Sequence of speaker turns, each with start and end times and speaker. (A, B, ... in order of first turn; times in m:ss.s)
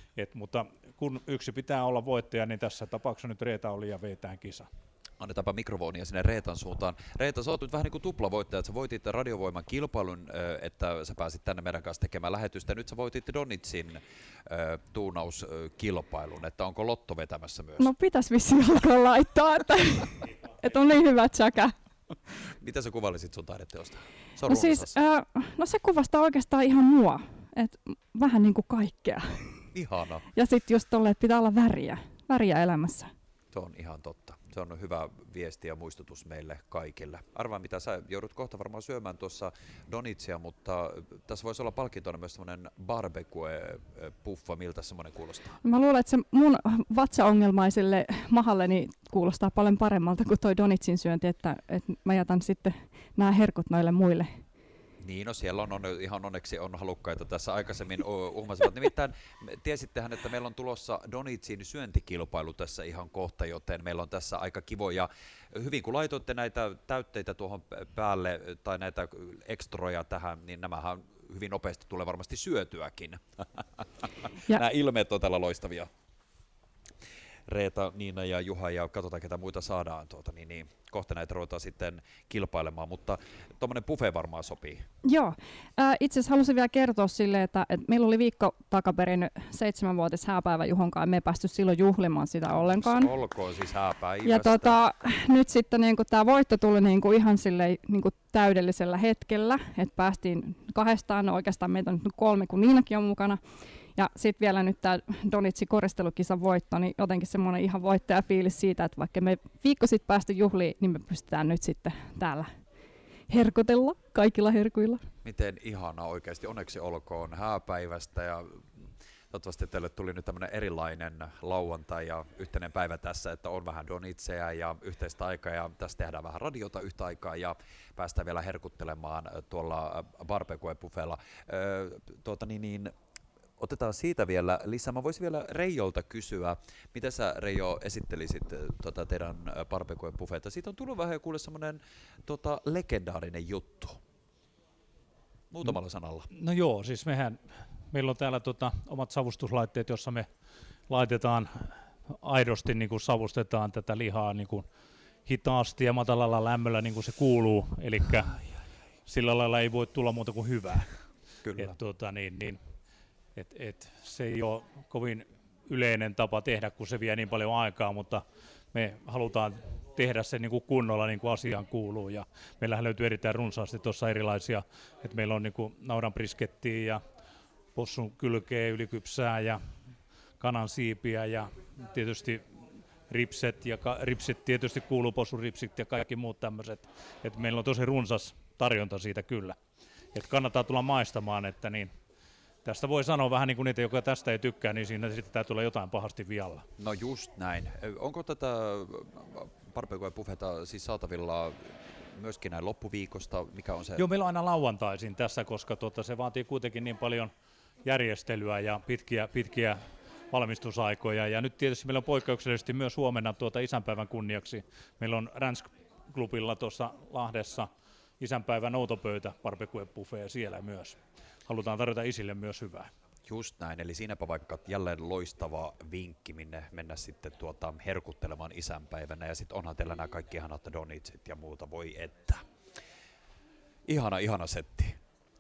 0:00.2-0:04.7 A
0:05.2-0:17.9 B
0:17.8-0:21.8 C
0:22.6-0:25.0 B
0:24.4-0:29.7 C
0:29.7-0:30.2 B
0:30.3-0:33.1 C
0:33.5-0:45.6 B
0:45.6-0:54.4 C
0:55.0-1:15.9 B
1:17.5-1:24.8 B
1:25.0-1:33.1 C
1:32.6-1:34.8 B
1:34.2-1:43.4 C
1:44.0-1:52.5 C
1:53.3-1:55.0 C
1:55.2-2:12.9 B
2:13.6-2:24.0 B
2:25.5-2:26.3 B
2:26.3-2:30.3 A
2:30.9-2:34.7 A
2:35.3-2:38.5 A
2:39.1-2:41.0 A
2:41.4-2:41.7 B
2:41.6-2:42.6 A
2:43.4-2:57.0 A
2:57.8-2:59.6 A
3:00.4-3:02.4 A
3:03.1-3:09.6 A
3:10.1-3:11.9 A
3:12.6-3:16.7 A
3:16.8-3:24.0 B
3:24.0-3:27.3 A
3:27.8-3:29.8 A
3:30.3-3:42.9 A
3:43.3-3:52.4 B
3:53.9-3:55.0 B